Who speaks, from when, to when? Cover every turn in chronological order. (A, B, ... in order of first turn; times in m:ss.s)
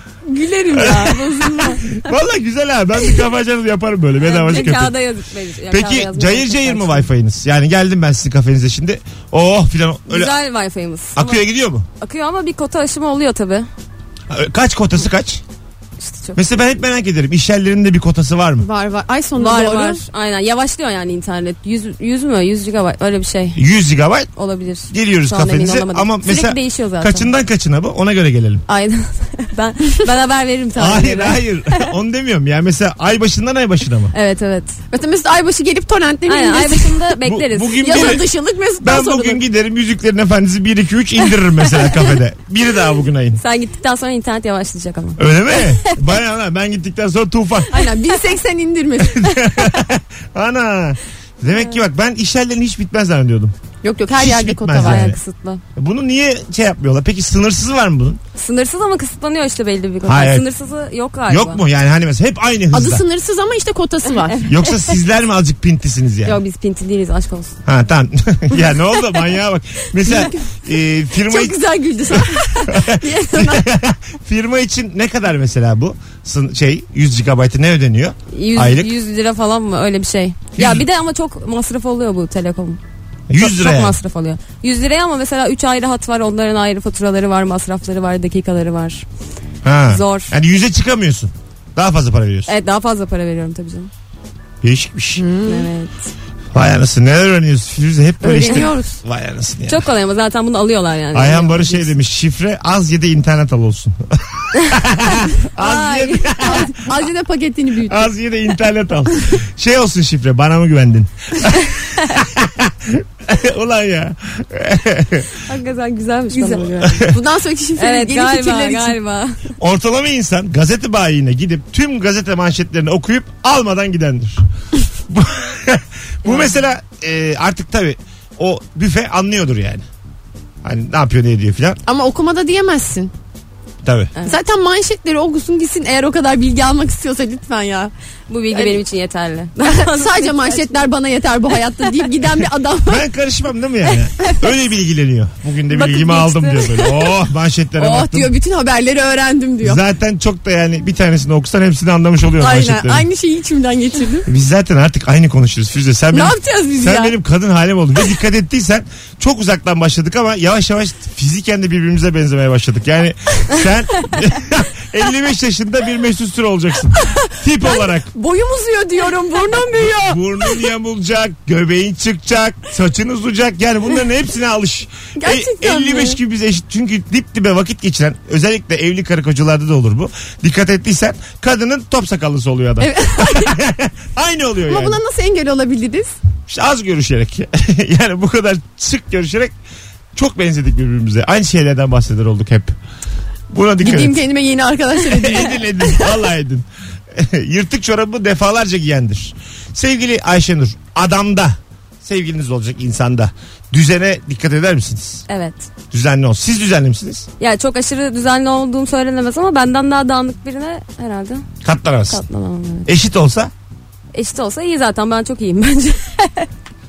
0:00.2-0:01.8 A
0:00.7-0:04.9 B
0:04.2-0:07.1 C
0:05.7-0:10.3 B
0:10.1-0:11.4 C
0:11.1-0:11.9 B
0:12.0-0:13.7 C
0:14.3-0:15.4 B
0:16.0-0:16.4 C
0:16.4-0:18.6 B
0:18.6-0:20.0 A
0:19.4-0:23.6 C
0:23.5-0:24.3 B
0:24.4-0:27.3 C
0:24.9-0:28.6 B
0:28.7-0:31.9 C
0:30.8-0:34.1 B
0:34.1-0:34.8 C
0:34.9-0:37.1 A
0:36.3-0:38.2 C
0:37.2-0:38.3 B
0:37.8-0:39.4 A
0:38.8-0:43.4 B
0:43.4-0:45.2 C
0:45.2-0:47.7 B
0:47.7-0:49.7 A
0:49.0-0:53.5 B
0:53.8-0:55.1 A
0:54.1-0:55.2 B
0:54.8-0:55.6 C
0:55.8-0:58.2 B
0:58.4-1:01.6 C
1:00.0-1:00.4 B
1:01.3-1:03.0 B
1:02.7-1:04.4 A
1:04.2-1:04.8 C
1:04.4-1:06.4 B
1:06.2-1:07.6 C
1:07.6-1:18.9 B
1:10.1-1:10.4 A
1:11.2-1:13.7 A
1:18.3-1:22.8 C
1:20.6-1:20.8 B
1:23.3-1:23.9 B
1:23.4-1:29.0 C
1:29.6-1:32.5 B
1:29.9-1:30.3 C
1:32.5-1:33.9 C
1:34.6-1:35.2 B
1:35.2-1:35.7 A
1:35.5-1:36.1 C
1:36.5-1:39.8 B
1:38.2-1:39.0 A
1:39.7-1:41.9 C
1:41.1-1:46.7 B
1:45.6-1:46.6 C
1:46.4-1:48.1 A
1:47.8-1:55.4 B
1:55.4-1:57.1 C
1:56.3-1:59.0 A
1:56.8-1:57.1 B
1:57.8-1:59.5 C
1:59.6-2:04.4 B
2:05.1-2:09.8 B
2:10.6-2:11.8 B
2:11.8-2:13.1 A
2:13.8-2:14.1 B
2:14.2-2:17.9 A
2:18.3-2:20.8 C
2:18.5-2:18.8 A
2:19.6-2:23.0 A
2:22.8-2:28.3 B
2:25.7-2:26.8 C
2:27.8-2:29.8 A
2:29.6-2:33.1 B
2:32.4-2:34.3 A
2:34.3-2:48.1 B
2:36.1-2:37.1 A
2:47.1-2:50.5 A
2:49.8-3:05.0 B
2:55.2-2:56.2 A
3:02.8-3:03.5 A
3:04.6-3:06.2 A
3:06.5-3:09.5 B
3:10.1-3:12.7 B
3:13.5-3:14.2 B
3:13.8-3:15.9 A
3:15.1-3:25.2 B
3:25.3-3:25.7 C
3:25.9-3:27.3 B
3:27.4-3:31.4 C
3:31.6-3:32.2 B
3:32.1-3:32.9 C
3:32.8-3:33.5 B
3:34.1-3:36.5 C